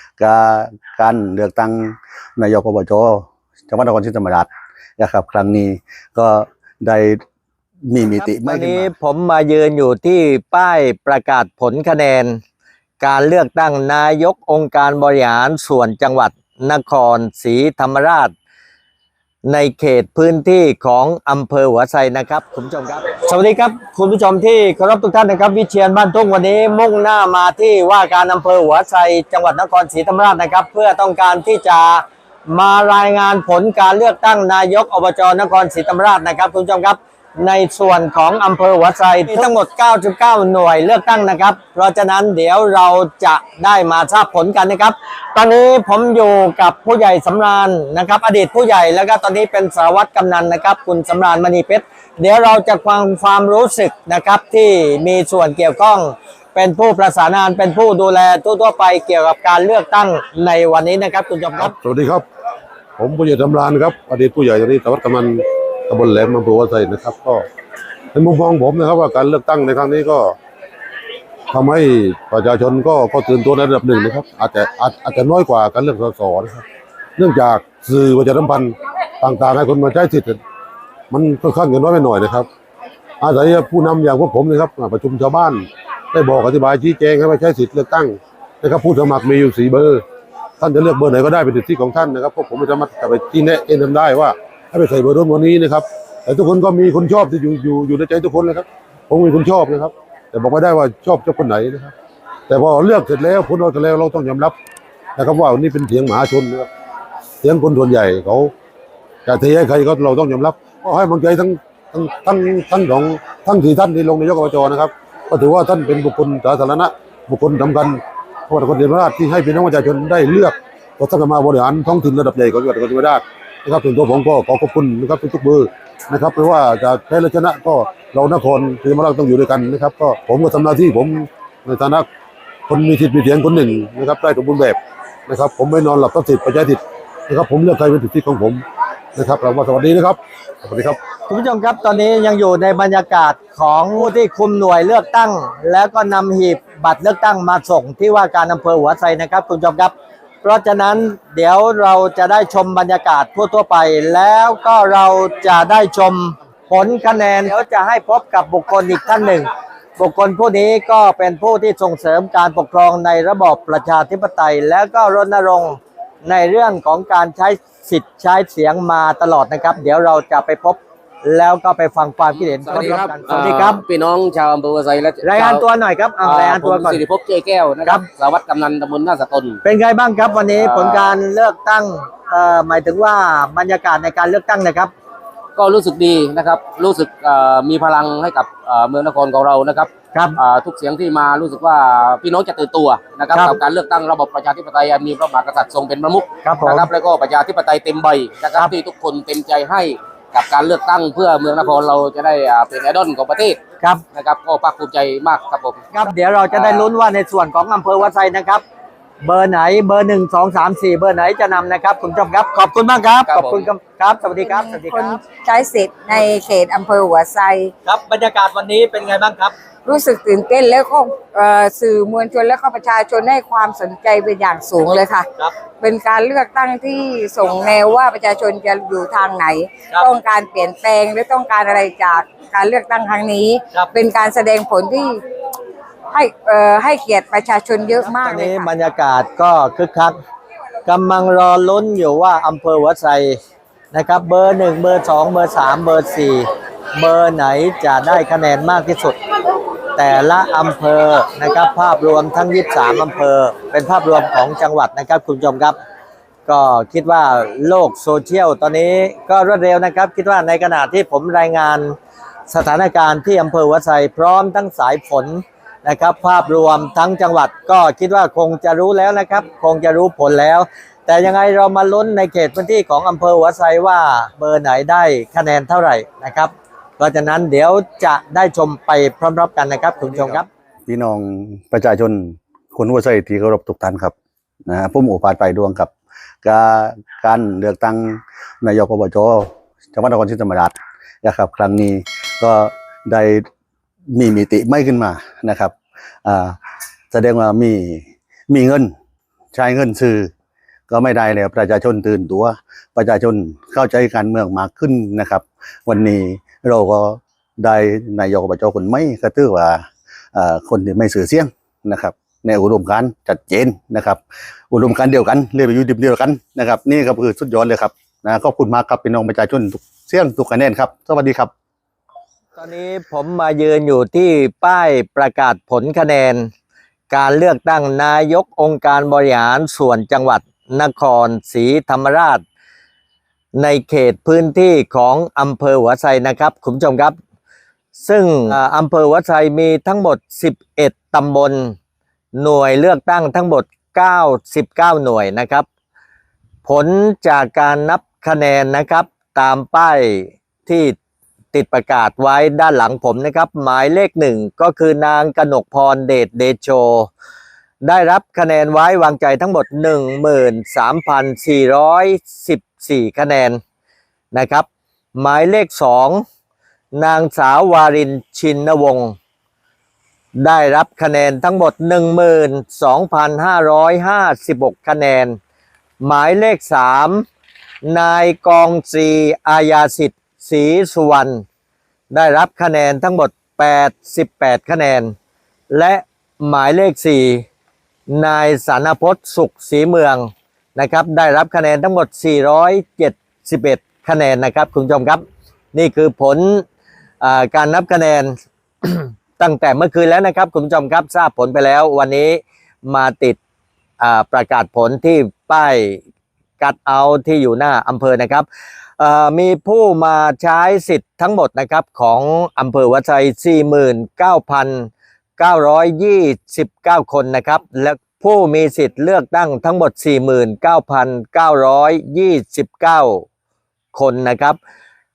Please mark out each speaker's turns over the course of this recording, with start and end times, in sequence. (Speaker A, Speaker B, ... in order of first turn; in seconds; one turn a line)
Speaker A: 0.2-7.2
Speaker A: 7.9-8.9
Speaker B: 8.2-12.4
Speaker B: 13.0-18.3
Speaker B: 19.5-61.7
Speaker C: 61.6-62.3
Speaker C: 63.0-67.5
Speaker C: 68.1-70.4
Speaker C: 71.5-76.6
Speaker C: 77.2-80.4
Speaker C: 81.1-82.5
Speaker C: 83.2-90.0
Speaker C: 90.6-101.9
Speaker C: 102.5-104.5
Speaker C: 105.2-106.7
Speaker C: 107.4-108.5
Speaker C: 109.3-132.1
Speaker C: 132.7-138.6
Speaker C: 139.2-141.0
Speaker B: 141.3-173.8
Speaker D: 172.4-175.6
Speaker B: 175.2-177.0
Speaker D: 176.2-179.6
Speaker B: 179.6-184.9
Speaker D: 180.6-181.1
Speaker D: 185.6-203.6
Speaker B: 190.1-190.4
Speaker B: 196.4-196.9
Speaker D: 204.1-205.8
Speaker B: 205.9-208.6
Speaker D: 206.5-206.9
Speaker B: 209.2-215.2
Speaker D: 213.3-213.7
Speaker E: 214.4-217.7
Speaker B: 217.8-219.6
Speaker E: 219.8-235.2
Speaker E: 236.1-238.7
Speaker B: 238.0-240.2
Speaker B: 240.9-243.4
Speaker B: 243.9-249.2
Speaker B: 249.9-255.8
Speaker B: 256.5-262.0
Speaker B: 262.5-280.5
Speaker A: 280.9-284.1
Speaker A: 284.7-285.9
Speaker A: 286.4-293.5
Speaker A: 294.1-295.7
Speaker A: 296.2-296.6
Speaker A: 297.1-298.9
Speaker A: 299.5-300.3
Speaker A: 300.9-321.5
Speaker B: 322.6-326.5
Speaker B: 327.1-332.4
Speaker B: 333.6-337.2
Speaker B: 337.9-341.8
Speaker B: 342.4-345.7
Speaker B: 346.6-351.0
Speaker B: 351.5-357.1
Speaker B: 357.8-363.6
Speaker B: 364.3-366.2
Speaker B: 366.9-369.1
Speaker B: 370.4-375.4
Speaker B: 376.0-377.2
Speaker B: 377.8-381.4
Speaker B: 382.1-385.1
Speaker B: 385.7-387.4
Speaker B: 388.1-395.2
Speaker B: 395.7-396.6
Speaker B: 397.2-403.4
Speaker B: 404.0-406.0
Speaker B: 406.6-408.5
Speaker B: 409.0-423.3
Speaker B: 423.9-424.6